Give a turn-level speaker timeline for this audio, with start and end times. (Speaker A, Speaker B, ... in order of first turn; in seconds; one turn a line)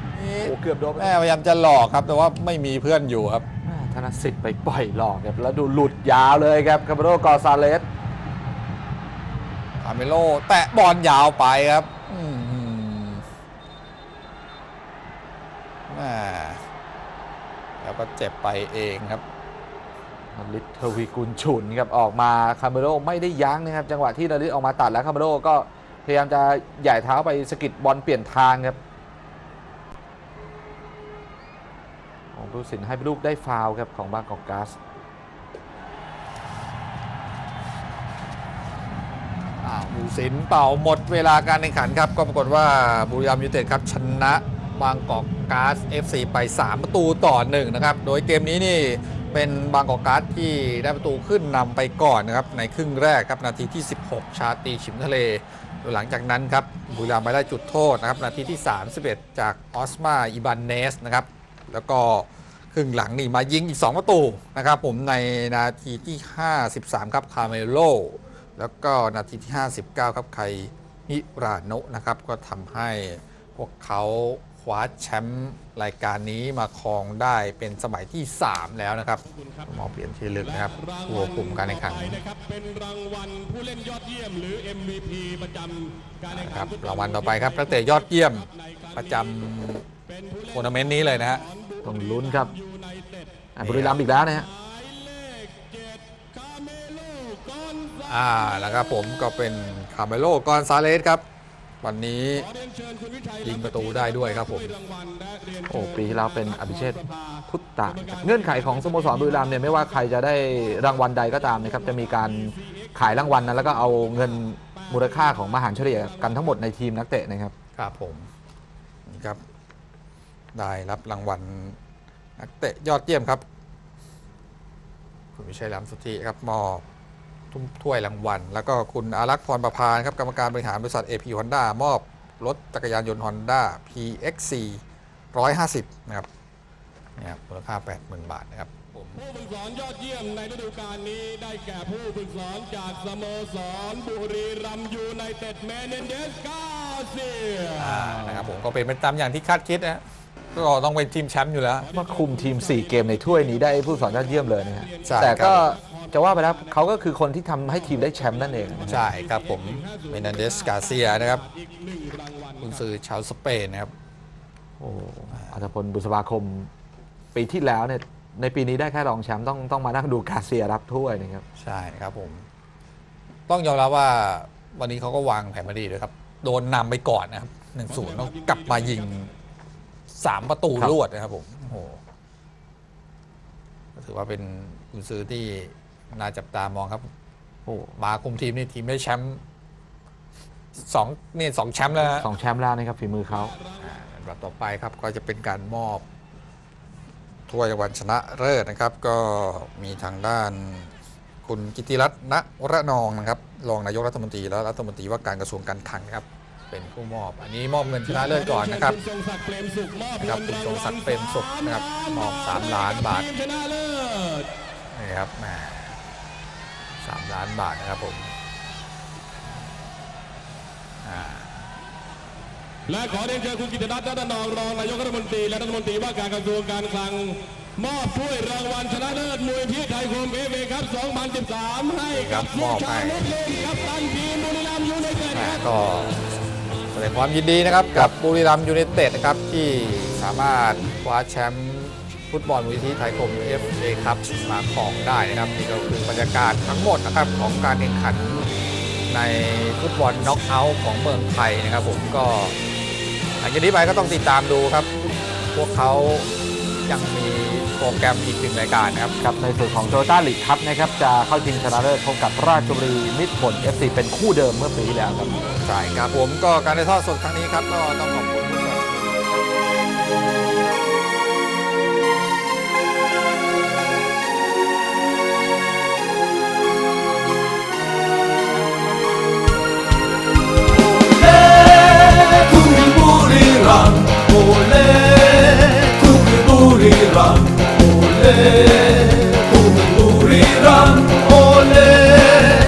Speaker A: 0.1-3.4
Speaker B: 0.4-1.1
Speaker B: 3.6-7.8
Speaker A: 9.8-13.2
Speaker A: 15.9-16.6
Speaker A: 17.8-19.2
Speaker B: 20.3-28.8
Speaker B: 32.3-34.8
Speaker A: 39.6-82.2
Speaker C: 82.2-86.2
Speaker A: 86.2-89.8
Speaker A: 90.5-91.4
Speaker B: 91.8-92.5
Speaker B: 93.5-94.5
Speaker A: 93.6-94.0
Speaker C: 95.1-95.8
Speaker C: 96.3-98.0
Speaker A: 98.0-101.2
Speaker A: 101.8-102.5
Speaker C: 102.6-103.4
Speaker A: 103.4-104.8
Speaker C: 104.8-105.6
Speaker B: 105.7-117.5
Speaker A: 117.8-118.3
Speaker A: 119.1-119.4
Speaker A: 120.5-121.8
Speaker A: 122.4-123.4
Speaker A: 125.3-126.8
Speaker A: 127.5-134.8
Speaker A: 135.3-136.3
Speaker A: 137.2-139.2
Speaker C: 139.2-147.8
Speaker A: 147.7-150.0
Speaker A: 150.5-151.9
Speaker B: 151.9-159.1
Speaker A: 155.0-155.7
Speaker A: 158.9-161.4
Speaker C: 162.0-162.4
Speaker A: 162.6-163.9
Speaker B: 164.8-166.7
Speaker B: 167.3-171.4
Speaker A: 171.6-172.4
Speaker A: 173.5-179.3
Speaker A: 180.1-182.0
Speaker A: 183.9-187.1
Speaker B: 187.7-187.9
Speaker A: 188.0-189.4
Speaker A: 190.7-192.3
Speaker B: 192.1-193.6
Speaker A: 193.8-196.0
Speaker A: 197.5-200.9
Speaker A: 201.4-209.0
Speaker C: 208.3-210.7
Speaker A: 210.2-213.3
Speaker C: 213.5-214.5
Speaker A: 214.9-216.0
Speaker A: 217.0-218.3
Speaker A: 221.0-221.7
Speaker C: 222.9-232.4
Speaker A: 232.1-233.3
Speaker C: 233.2-235.3
Speaker A: 235.2-236.2
Speaker A: 236.9-248.5
Speaker A: 249.1-252.6
Speaker A: 253.4-256.3
Speaker A: 256.9-259.1
Speaker B: 259.2-265.5
Speaker A: 265.6-269.2
Speaker C: 282.5-284.1
Speaker C: 286.0-286.6
Speaker C: 287.6-287.9
Speaker C: 290.3-292.4